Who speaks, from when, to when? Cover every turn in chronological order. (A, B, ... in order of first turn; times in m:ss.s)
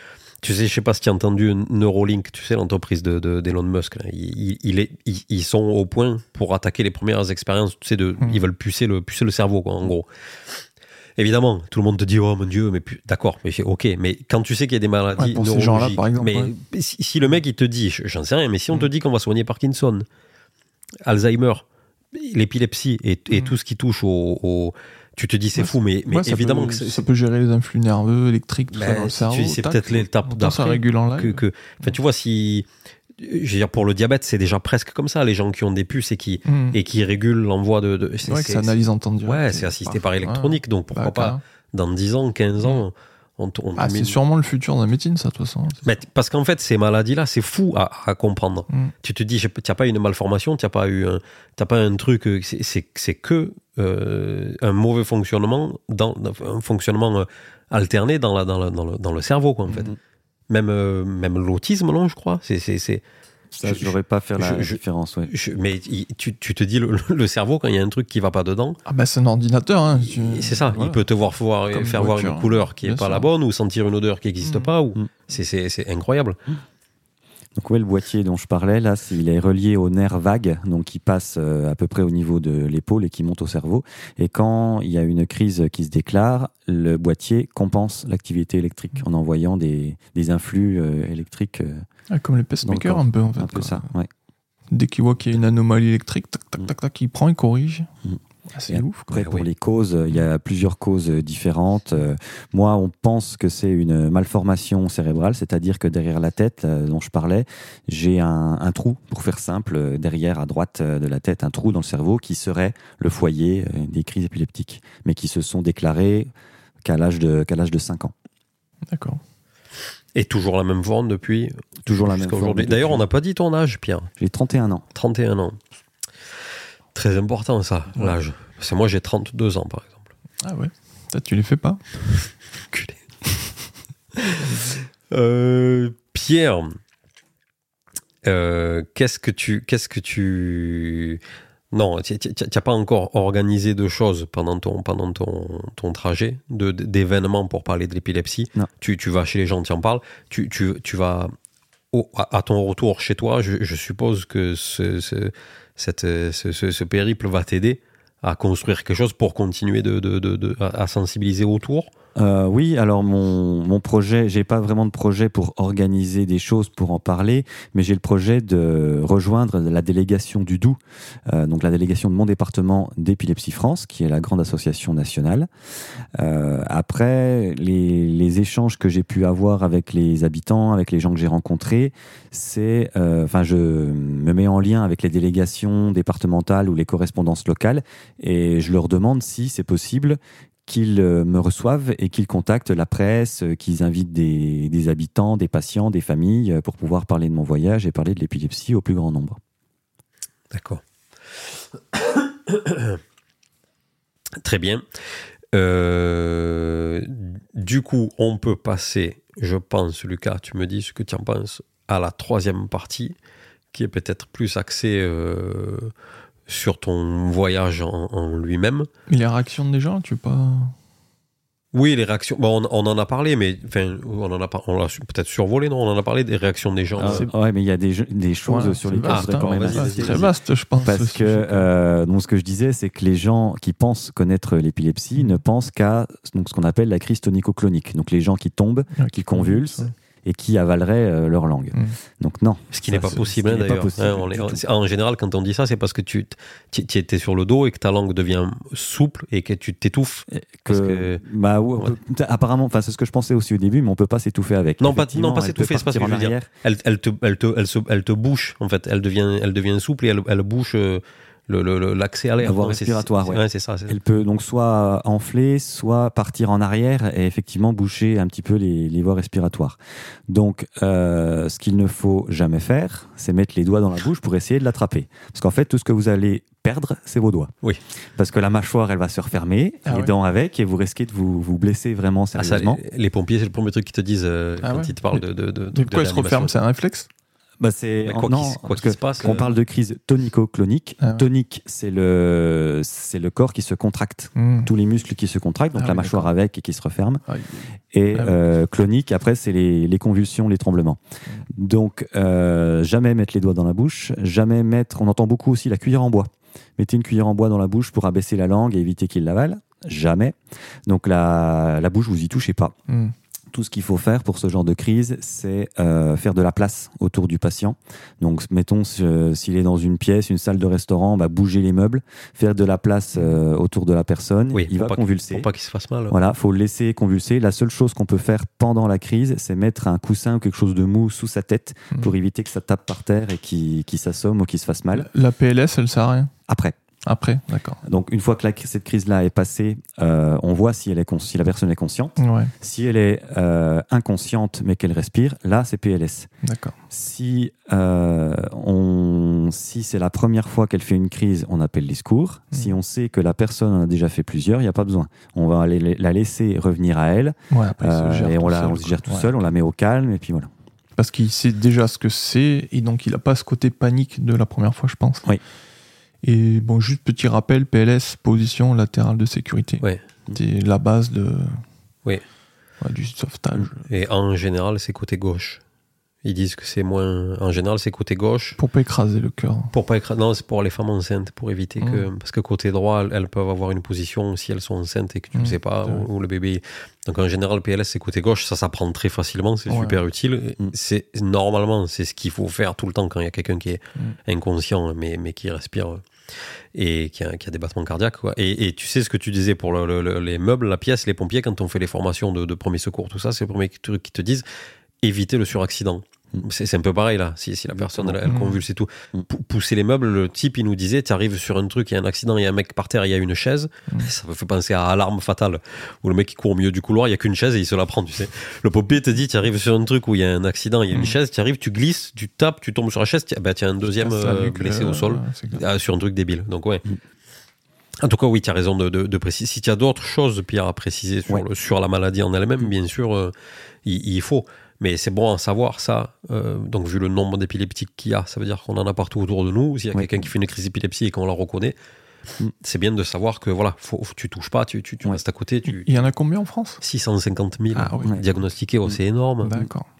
0:00.4-0:10.6 A
0:11.2-0:20.0 A
0:15.2-0:16.5 B
0:21.0-0:27.0 A
0:25.6-0:32.0 B
0:28.7-0:44.2 A
0:36.4-0:36.8 B
0:38.2-0:41.4 B
0:43.8-0:45.8 B
0:45.8-0:59.9 A
1:00.5-1:03.0 A
1:03.5-1:05.3 C
1:03.6-1:08.8 A
1:08.8-1:11.0 B
1:10.0-1:16.4 A
1:11.7-1:13.3 B
1:14.4-1:14.7 B
1:17.6-1:31.8 C
1:32.1-1:33.9 B
1:32.6-1:34.1 C
1:34.7-1:37.9 B
1:38.0-1:56.3 C
1:38.5-1:39.1 B
1:39.2-1:39.4 A
1:56.8-1:58.1 C
1:58.9-1:59.2 B
2:00.1-2:04.1 A
2:01.8-2:03.0 C
2:04.2-2:04.8 C
2:04.9-2:05.6 A
2:06.9-2:10.1 A
2:10.4-2:11.8 B
2:12.7-2:13.0 A
2:14.1-2:16.8 A
2:18.2-2:21.2 A
2:21.7-2:31.3 A
2:31.9-2:41.9 A
2:42.2-2:50.8 C
2:51.3-2:55.5 C
2:56.2-3:19.4 C
3:20.5-3:20.8 A
3:21.9-3:23.0 A
3:24.4-3:24.8 A
3:25.5-3:33.1 A
3:33.7-3:35.9 A
3:36.5-3:38.9 A
3:39.1-3:40.8 B
3:41.7-3:47.3 A
3:47.0-3:50.2 C
3:47.0-3:47.3 B
3:48.4-3:51.7 B
3:49.0-3:50.3 A
3:50.8-4:04.6 C
3:59.0-3:59.9 B
4:01.7-4:02.0 B
4:02.7-4:11.2 A
4:10.3-4:16.5 C
4:14.8-4:24.0 A
4:22.4-4:29.8 C
4:30.3-4:37.5 C
4:38.2-4:42.8 C
4:39.8-4:40.1 B
4:42.4-4:46.5 A
4:44.6-4:47.1 B
4:47.6-4:57.2 C
4:48.0-4:49.4 A
4:54.3-4:54.7 B
4:55.7-4:56.3 B
4:57.3-4:58.4 B
4:57.9-5:01.0 C
5:01.5-5:10.3 C
5:10.8-5:12.7 C
5:12.9-5:13.1 B
5:13.5-5:25.5 C
5:24.5-5:26.2 A
5:26.1-5:35.1 C
5:34.9-5:36.3 B
5:36.5-5:36.8 C
5:37.0-5:37.8 B
5:37.8-5:46.3 C
5:42.2-5:42.5 B
5:46.4-5:46.8 B
5:46.9-6:00.5 C
5:57.5-5:59.3 B
6:01.0-6:05.2 B
6:06.2-6:11.6 B
6:12.8-6:13.8 B
6:13.9-6:15.6 A
6:16.2-6:18.6 A
6:18.6-6:19.7 B
6:19.7-6:36.0 A
6:21.8-6:22.1 B
6:25.3-6:26.0 B
6:29.7-6:30.0 B
6:36.7-6:44.4 A
6:45.0-7:06.8 A
6:47.7-6:48.2 C
6:48.2-6:48.6 B
7:04.0-7:05.6 B
7:08.0-7:13.3 A
7:13.8-7:21.7 A
7:19.9-7:20.3 C
7:22.6-7:26.0 A
7:25.6-7:26.8 B
7:26.8-7:29.5 A
7:27.7-7:28.1 B
7:29.4-7:29.9 B